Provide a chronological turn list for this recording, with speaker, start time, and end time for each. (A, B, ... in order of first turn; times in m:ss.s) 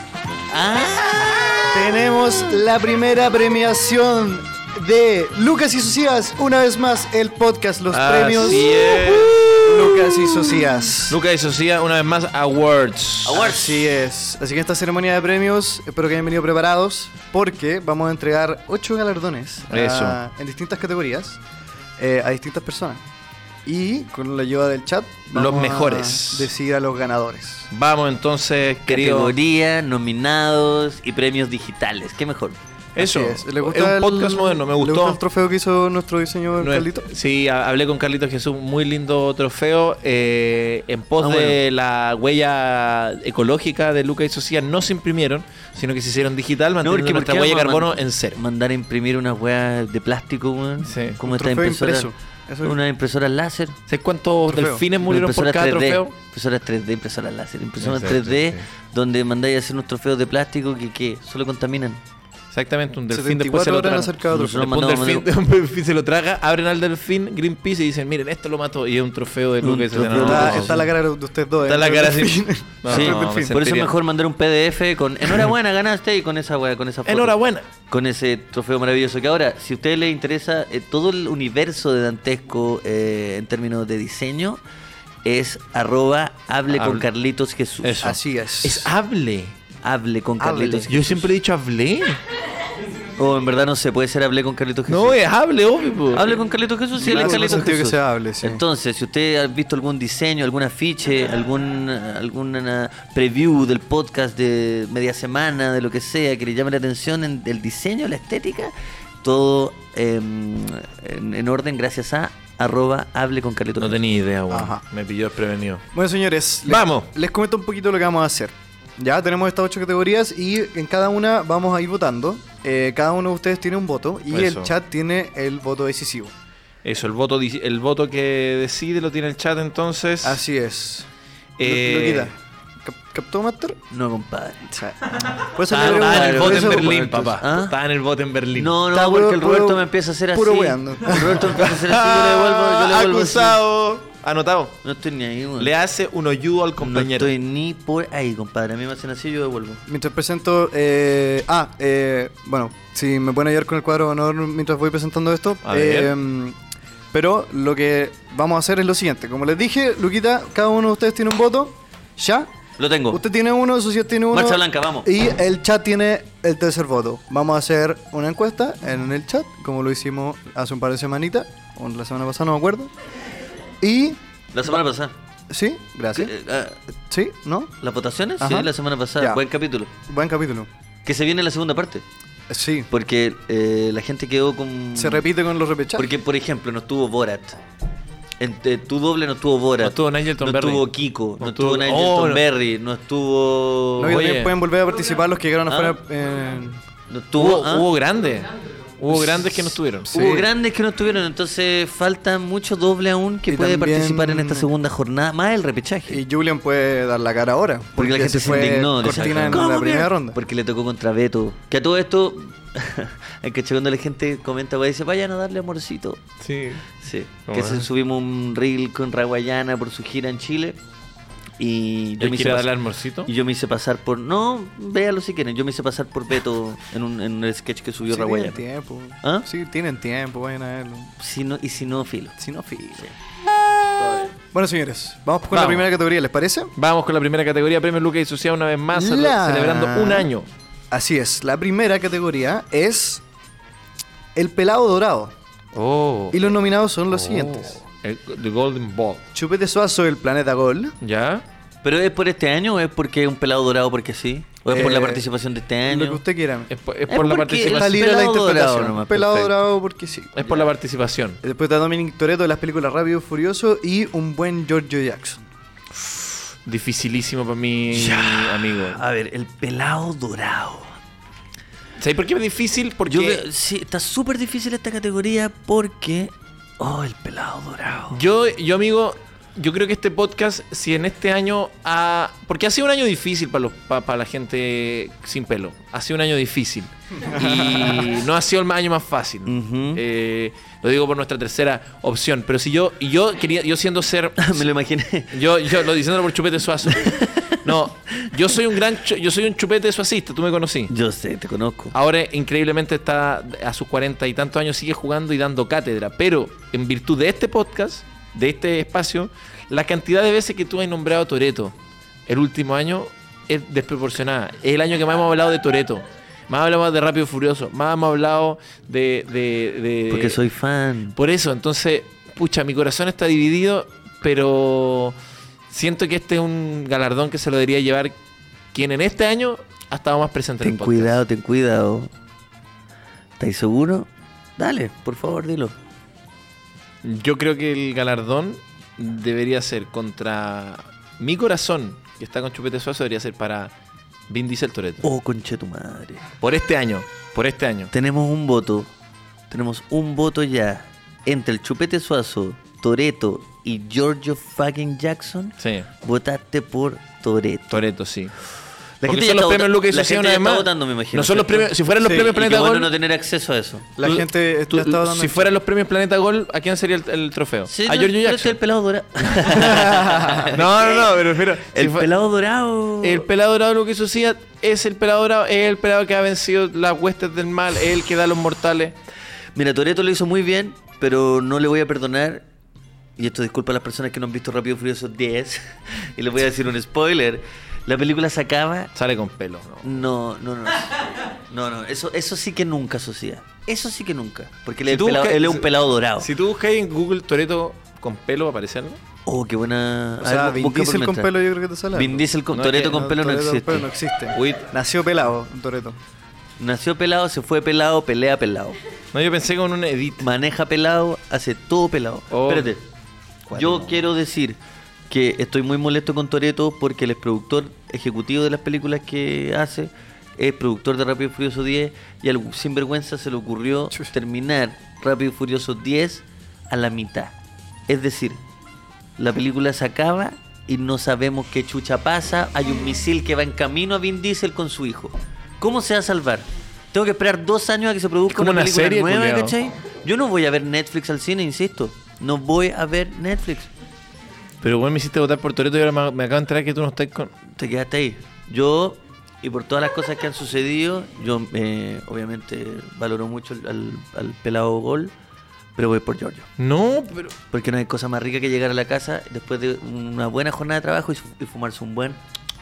0:00.5-0:01.7 A
0:01.7-0:11.2 B
0:07.9-0:09.9 C
0:08.5-0:09.1 A
0:11.1-0:13.6 C
0:13.2-0:13.8 A
0:13.3-0:21.4 B
0:19.7-0:20.2 C
0:22.0-0:23.0 B
0:23.6-0:27.7 B
0:25.3-0:26.5 C
0:27.7-0:29.3 C
0:28.9-0:32.6 A
0:32.9-0:35.2 C
0:33.0-0:37.1 B
0:36.6-0:48.4 C
0:41.2-0:41.6 A
0:46.8-0:52.1 A
0:50.8-0:51.2 C
0:51.2-0:52.8 B
0:52.6-0:53.8 A
0:53.9-0:56.1 C
0:54.5-0:54.8 B
0:55.0-1:02.0 A
0:57.8-0:58.6 C
1:02.5-1:10.8 C
1:03.1-1:04.6 B
1:04.3-1:05.3 A
1:09.6-1:10.8 A
1:10.2-1:13.6 B
1:11.6-1:13.9 C
1:12.9-1:17.3 A
1:17.0-1:17.7 C
1:17.9-1:24.6 A
1:25.2-1:28.1 A
1:26.7-1:27.0 C
1:27.8-1:29.6 C
1:28.0-1:28.9 B
1:29.8-1:31.0 A
1:30.4-1:31.2 B
1:30.9-1:32.2 C
1:33.2-1:35.2 A
1:34.9-1:36.4 C
1:36.1-1:54.0 A
1:37.0-1:38.6 B
1:37.0-1:37.6 C
1:53.8-1:55.8 C
1:54.5-1:54.8 B
1:55.9-2:06.3 B
1:56.7-1:57.1 C
2:04.3-2:04.7 C
2:06.8-2:10.4 C
2:10.2-2:11.1 B
2:11.6-2:12.3 C
2:11.6-2:13.8 B
2:13.9-2:14.7 A
2:14.7-2:17.3 B
2:15.7-2:17.7 A
2:15.7-2:18.7 C
2:18.5-2:23.6 A
2:18.9-2:21.6 B
2:21.6-2:24.8 C
2:24.8-2:25.7 A
2:25.6-2:27.3 C
2:26.8-2:29.8 A
2:29.9-2:36.6 B
2:35.6-2:36.1 C
2:37.1-2:42.5 B
2:42.8-2:43.2 A
2:43.1-2:52.9 B
2:44.3-2:45.1 A
2:53.8-2:54.2 B
2:54.5-2:55.1 A
2:55.5-2:56.3 B
2:56.1-2:56.8 A
2:57.1-2:57.7 B
2:57.8-2:59.9 A
2:58.4-2:59.4 B
3:00.0-3:00.7 B
3:01.0-3:02.0 A
3:02.5-3:02.9 B
3:02.9-3:05.3 A
3:04.9-3:06.1 B
3:05.9-3:07.6 A
3:08.4-3:14.3 A
3:09.8-3:12.4 C
3:14.0-3:16.8 B
3:14.0-3:14.5 C
3:15.7-3:16.0 A
3:17.1-3:17.9 A
3:17.4-3:20.3 C
3:20.1-3:20.5 B
3:20.1-3:26.2 A
3:23.5-3:24.7 B
3:26.1-3:30.4 B
3:28.0-3:36.2 A
3:29.0-3:29.6 C
3:36.4-3:37.0 C
3:37.0-3:40.8 A
3:37.5-3:37.9 C
3:41.6-3:42.7 A
3:42.2-3:43.3 C
3:43.2-3:48.6 A
3:48.1-3:51.1 B
3:49.2-3:49.5 A
3:51.2-3:52.4 A
3:52.4-3:53.1 B
3:54.4-3:56.7 B
3:55.5-3:55.9 C
3:56.8-4:00.5 C
3:58.9-4:00.3 B
4:00.9-4:03.2 B
4:04.3-4:05.3 B
4:05.7-4:06.5 C
4:06.3-4:07.8 B
4:07.1-4:09.2 C
4:09.3-4:10.9 B
4:11.0-4:11.4 C
4:11.8-4:16.2 A
4:14.7-4:15.3 B
4:15.8-4:16.7 B
4:16.7-4:18.0 C
4:17.1-4:19.5 A
4:17.6-4:20.3 B
4:20.4-4:21.4 C
4:20.4-4:20.7 A
4:21.4-4:25.4 B
4:26.0-4:29.0 C
4:27.9-4:30.9 A
4:32.0-4:33.4 C
4:33.1-4:38.2 A
4:38.1-4:54.6 C
4:47.3-4:48.1 B
4:49.4-4:50.0 A
4:54.4-4:55.3 A
4:55.3-5:00.9 C
4:56.9-4:57.6 A
5:00.9-5:01.9 A
5:01.9-5:11.7 C
5:12.3-5:20.4 C
5:20.1-5:21.1 A
5:21.2-5:25.2 C
5:25.7-5:28.1 C
5:28.7-5:31.2 C
5:30.6-5:32.1 A
5:33.4-5:35.7 A
5:37.0-5:43.7 C
5:44.3-5:45.0 C
5:45.0-5:46.2 A
5:46.4-5:47.9 C
5:47.9-5:48.9 A
5:49.5-5:57.8 A
5:55.6-5:55.9 C
5:57.7-5:58.3 C
5:59.0-6:03.9 A
5:59.0-6:02.9 C
6:02.0-6:02.3 B
6:04.0-6:05.5 B
6:04.0-6:08.6 C
6:07.7-6:11.1 A
6:09.2-6:12.1 C
6:11.7-6:13.2 A
6:13.0-6:19.0 C
6:19.5-6:22.4 A
6:23.2-6:28.9 A
6:28.9-6:30.0 C
6:29.8-6:36.3 A
6:34.8-6:39.0 C
6:39.2-6:41.3 A
6:40.2-6:42.2 B
6:41.9-6:43.9 A
6:42.5-6:43.0 C
6:42.8-6:46.0 B
6:44.3-6:44.7 C
6:46.6-6:48.8 A
6:49.1-6:50.2 C
6:50.2-6:52.8 A
6:52.3-6:52.7 C
6:53.5-6:54.0 C
6:53.5-6:54.6 A
6:55.1-7:07.3 A
7:07.9-7:08.4 A
7:09.2-7:23.7 A
7:18.3-7:19.5 C
7:24.6-7:27.3 C
7:27.6-7:35.1 A
7:35.8-7:36.5 A
7:36.6-7:37.3 C
7:37.5-7:42.2 A